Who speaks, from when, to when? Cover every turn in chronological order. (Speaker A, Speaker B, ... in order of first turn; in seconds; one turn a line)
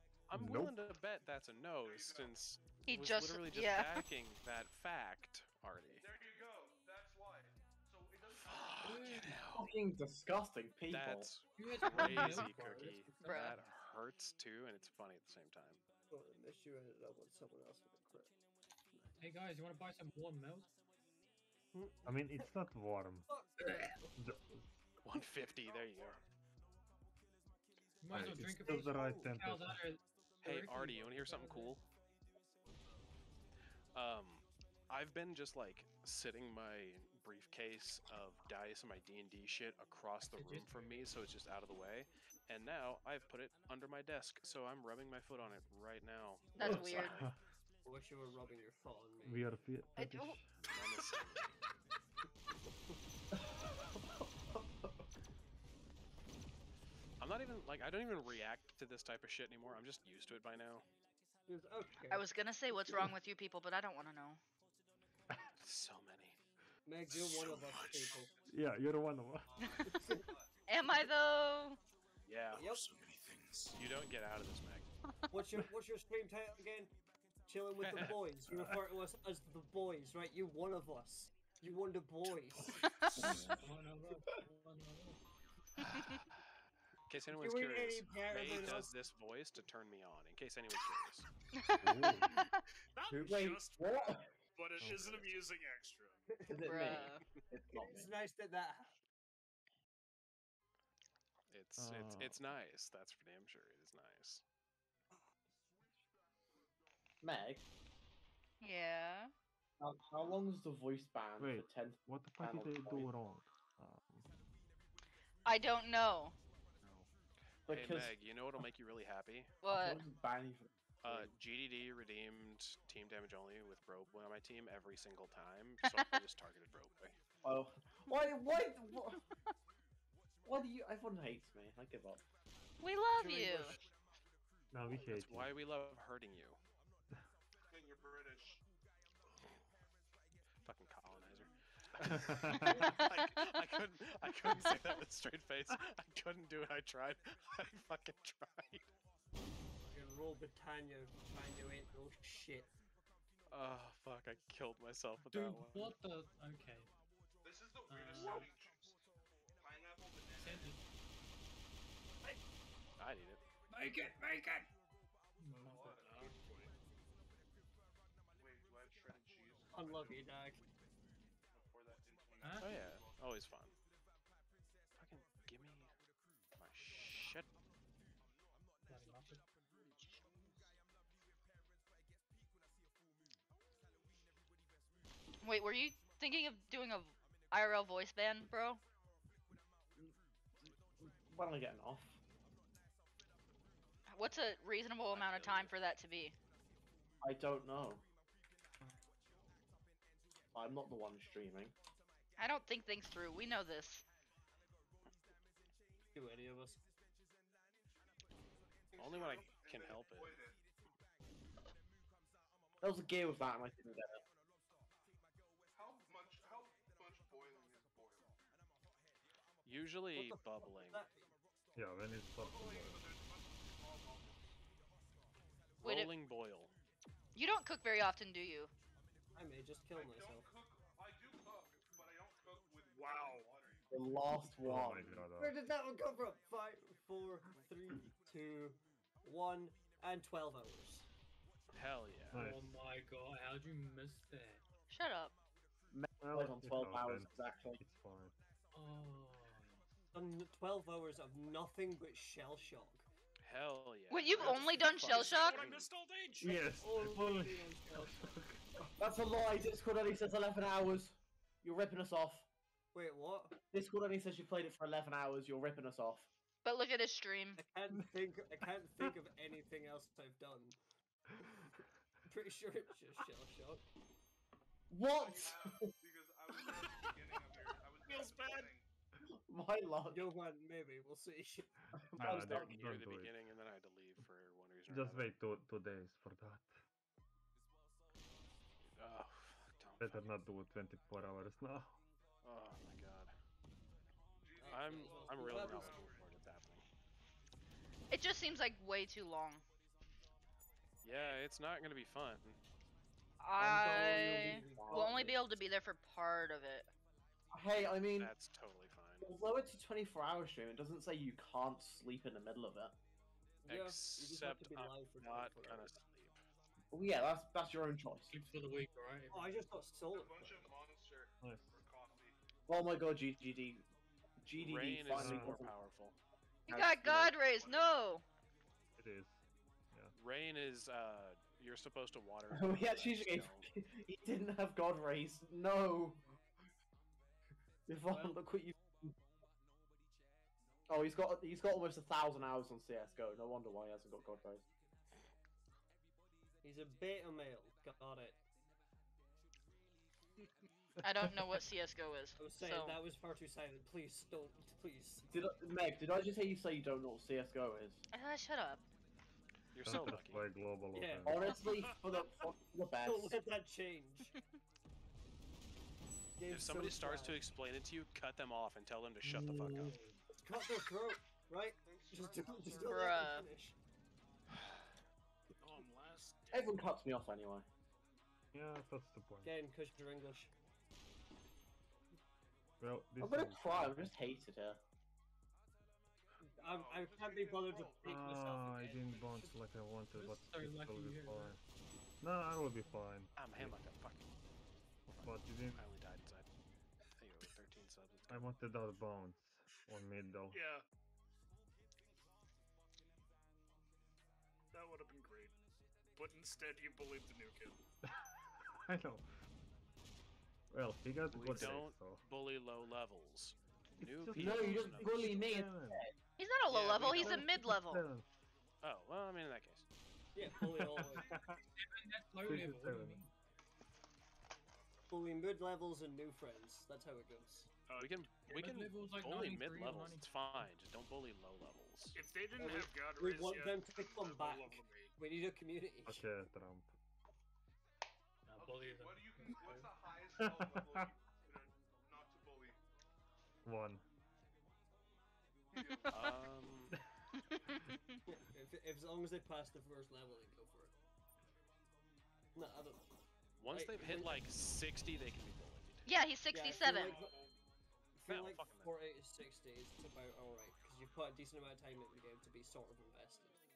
Speaker A: 0.3-6.0
Speaker B: 0.3-0.8
Speaker C: 1.8-2.4
Speaker D: 2.9-3.9
Speaker C: 5.9-9.4
Speaker A: 8.4-9.7
Speaker E: 8.8-9.4
Speaker F: 9.5-11.3
Speaker A: 10.9-15.8
Speaker E: 11.6-13.5
Speaker D: 13.2-13.6
Speaker G: 16.1-18.3
Speaker E: 19.2-20.7
Speaker G: 21.7-22.4
Speaker B: 22.1-24.8
Speaker G: 23.3-24.0
Speaker A: 25.0-26.2
Speaker C: 25.2-26.3
Speaker E: 28.0-30.0
Speaker B: 28.1-29.8
Speaker G: 28.6-29.2
Speaker G: 30.4-31.8
Speaker A: 30.4-31.8
Speaker A: 33.9-47.3
Speaker E: 40.2-41.1
Speaker D: 46.5-47.2
Speaker B: 46.6-47.4
Speaker G: 47.9-49.5
Speaker B: 49.2-50.5
Speaker D: 50.0-50.4
Speaker A: 50.7-51.5
Speaker F: 53.3-54.9
Speaker A: 57.2-60.9
Speaker G: 61.5-62.3
Speaker D: 62.1-64.4
Speaker A: 65.6-66.4
Speaker G: 66.8-68.3
Speaker H: 67.1-68.1
Speaker C: 68.2-68.5
Speaker B: 68.5-69.8
Speaker C: 69.5-70.5
Speaker G: 69.9-70.2
Speaker D: 70.7-71.8
Speaker A: 72.3-72.7
Speaker H: 72.5-73.8
Speaker G: 72.5-72.9
Speaker A: 73.8-74.9
Speaker G: 75.3-76.9
Speaker G: 77.5-83.0
Speaker A: 77.8-78.2
Speaker B: 78.5-78.8
Speaker D: 82.9-83.4
Speaker B: 83.2-83.6
Speaker E: 83.5-85.2
Speaker A: 87.1-91.3
Speaker G: 87.3-88.9
Speaker D: 91.5-92.5
Speaker B: 91.8-92.4
Speaker H: 92.9-96.4
Speaker F: 93.1-94.4
Speaker B: 94.8-95.3
Speaker G: 96.4-97.0
Speaker F: 96.5-98.1
Speaker D: 96.6-97.3
Speaker G: 97.7-98.9
Speaker A: 101.5-104.4
Speaker B: 101.8-102.4
Speaker F: 107.2-107.7
Speaker D: 108.6-109.3
Speaker F: 109.8-113.1
Speaker B: 111.4-114.3
Speaker D: 115.5-116.4
Speaker B: 116.8-117.1
Speaker F: 117.7-118.2
Speaker A: 117.7-119.5
Speaker D: 119.6-120.0
Speaker F: 119.7-121.3
Speaker A: 121.0-127.2
Speaker F: 127.4-129.2
Speaker F: 130.4-132.2
Speaker D: 132.8-133.8
Speaker C: 133.4-133.8
Speaker B: 134.7-135.6
Speaker A: 134.9-136.6
Speaker C: 137.7-138.6
Speaker A: 140.6-148.9
Speaker B: 142.0-142.8
Speaker G: 149.9-152.7
Speaker A: 153.5-156.0
Speaker E: 155.2-156.9
Speaker C: 157.4-159.0
Speaker E: 157.9-158.5
Speaker G: 158.2-158.4
Speaker C: 159.6-160.9
Speaker E: 160.4-160.8
Speaker A: 163.0-163.4
Speaker E: 163.8-164.6
Speaker G: 163.8-164.6
Speaker E: 165.4-166.0
Speaker C: 165.6-166.4
Speaker H: 166.0-166.7
Speaker C: 168.3-170.3
Speaker G: 169.7-170.6
Speaker C: 171.5-173.2
Speaker E: 172.4-172.8
Speaker A: 172.6-173.8
Speaker A: 175.0-175.9
Speaker A: 176.6-177.5
Speaker E: 178.9-179.4
Speaker C: 180.0-180.7
Speaker D: 185.4-188.8
Speaker F: 190.7-192.2
Speaker D: 194.1-196.3
Speaker A: 195.1-195.7
Speaker F: 197.2-198.1
Speaker F: 200.5-201.7
Speaker D: 202.4-204.0
Speaker G: 206.1-206.8
Speaker C: 208.9-210.6
Speaker A: 209.0-210.4
Speaker F: 212.8-214.2
Speaker C: 215.7-218.4
Speaker A: 219.7-221.1
Speaker G: 220.1-221.3
Speaker B: 221.8-223.0
Speaker C: 222.4-224.6
Speaker A: 225.8-226.7
Speaker D: 225.8-226.1
Speaker D: 227.3-228.7
Speaker G: 229.3-230.5
Speaker C: 229.9-233.8
Speaker H: 232.9-233.5
Speaker F: 233.9-235.3
Speaker B: 234.4-235.6
Speaker G: 235.4-241.1
Speaker A: 241.7-242.4
Speaker B: 242.3-242.8
Speaker E: 242.3-244.6
Speaker D: 244.9-245.3
Speaker F: 245.9-247.8
Speaker B: 246.2-248.4
Speaker E: 248.7-249.8
Speaker G: 250.1-253.1
Speaker A: 253.4-254.8
Speaker D: 254.1-255.8
Speaker H: 254.4-256.7
Speaker F: 254.4-255.2
Speaker B: 256.4-258.7
Speaker G: 256.5-258.3
Speaker F: 258.8-262.5
Speaker G: 262.9-263.6
Speaker F: 263.7-266.3
Speaker D: 266.6-267.6
Speaker G: 267.6-270.8
Speaker G: 272.3-273.8
Speaker F: 274.9-275.9
Speaker C: 275.1-278.9
Speaker H: 276.5-277.5
Speaker H: 278.1-278.7
Speaker F: 279.3-280.3
Speaker G: 280.1-281.7
Speaker F: 282.0-282.8
Speaker B: 282.1-283.4
Speaker A: 282.2-285.3
Speaker B: 284.9-286.8
Speaker A: 288.9-290.3
Speaker B: 290.0-292.0
Speaker A: 292.4-293.3
Speaker C: 294.4-296.3
Speaker G: 294.6-296.2
Speaker A: 294.7-296.8
Speaker D: 298.1-299.6
Speaker A: 301.0-302.6
Speaker D: 303.4-306.9
Speaker G: 303.6-305.4
Speaker F: 303.9-305.4
Speaker F: 307.5-308.3
Speaker A: 307.8-309.3
Speaker F: 309.2-313.0
Speaker G: 313.6-315.9
Speaker A: 313.7-316.4
Speaker F: 316.9-318.4
Speaker E: 318.2-319.7
Speaker G: 319.3-320.7
Speaker C: 320.1-322.4
Speaker B: 321.4-321.8
Speaker F: 322.7-323.9
Speaker F: 324.4-325.7
Speaker A: 324.6-326.2
Speaker B: 325.1-325.7
Speaker D: 326.7-328.2
Speaker F: 326.7-327.4
Speaker C: 327.5-328.0
Speaker B: 329.0-330.1
Speaker A: 330.2-333.7
Speaker F: 332.5-336.2
Speaker F: 337.9-339.1
Speaker G: 338.1-338.4
Speaker F: 340.9-344.6
Speaker G: 346.6-348.4
Speaker B: 351.0-351.6
Speaker D: 351.0-353.0
Speaker G: 352.4-355.3
Speaker F: 355.3-358.1
Speaker D: 358.1-358.9
Speaker A: 359.7-360.4
Speaker B: 359.8-361.7
Speaker G: 360.9-361.4
Speaker F: 361.2-363.4
Speaker H: 361.6-362.0
Speaker G: 363.0-364.3
Speaker G: 366.4-367.4
Speaker A: 366.5-370.0
Speaker B: 369.2-370.2
Speaker G: 370.4-373.8
Speaker C: 371.8-373.3
Speaker D: 372.7-373.5
Speaker H: 375.6-377.0
Speaker F: 376.5-377.7
Speaker B: 378.5-379.5
Speaker G: 379.4-380.5
Speaker B: 382.8-384.2
Speaker F: 383.2-384.8
Speaker G: 386.4-389.6
Speaker C: 386.6-388.5
Speaker B: 388.0-391.6
Speaker E: 390.1-391.6
Speaker B: 392.2-393.8
Speaker A: 393.4-394.3
Speaker A: 395.1-396.5
Speaker B: 395.2-395.9
Speaker A: 397.1-398.5
Speaker B: 398.3-400.6
Speaker H: 400.5-400.9
Speaker H: 404.7-405.6
Speaker H: 406.1-407.8
Speaker B: 408.2-409.3
Speaker B: 410.7-412.2
Speaker A: 411.3-415.6
Speaker B: 414.0-416.1
Speaker F: 414.4-416.1
Speaker D: 416.4-418.0
Speaker A: 416.7-417.5
Speaker B: 417.0-418.3
Speaker A: 418.8-419.9
Speaker G: 420.4-421.3
Speaker B: 420.6-421.6
Speaker C: 421.1-421.6
Speaker E: 421.8-423.3
Speaker B: 422.4-423.3
Speaker G: 425.1-427.7
Speaker H: 427.9-428.3
Speaker A: 428.0-432.2
Speaker E: 428.5-430.7
Speaker H: 432.1-435.1
Speaker G: 432.6-436.3
Speaker B: 436.1-436.9
Speaker E: 438.5-439.9
Speaker C: 438.6-442.8
Speaker B: 440.4-441.1
Speaker B: 443.6-444.0
Speaker C: 445.7-446.4
Speaker D: 445.9-446.3
Speaker A: 446.1-447.0
Speaker D: 447.5-447.8
Speaker G: 448.3-450.9
Speaker G: 452.6-453.1
Speaker A: 453.6-456.1
Speaker G: 453.7-454.5
Speaker D: 456.1-457.2
Speaker G: 456.5-457.4
Speaker C: 456.9-457.5
Speaker G: 458.1-463.6
Speaker A: 458.3-458.9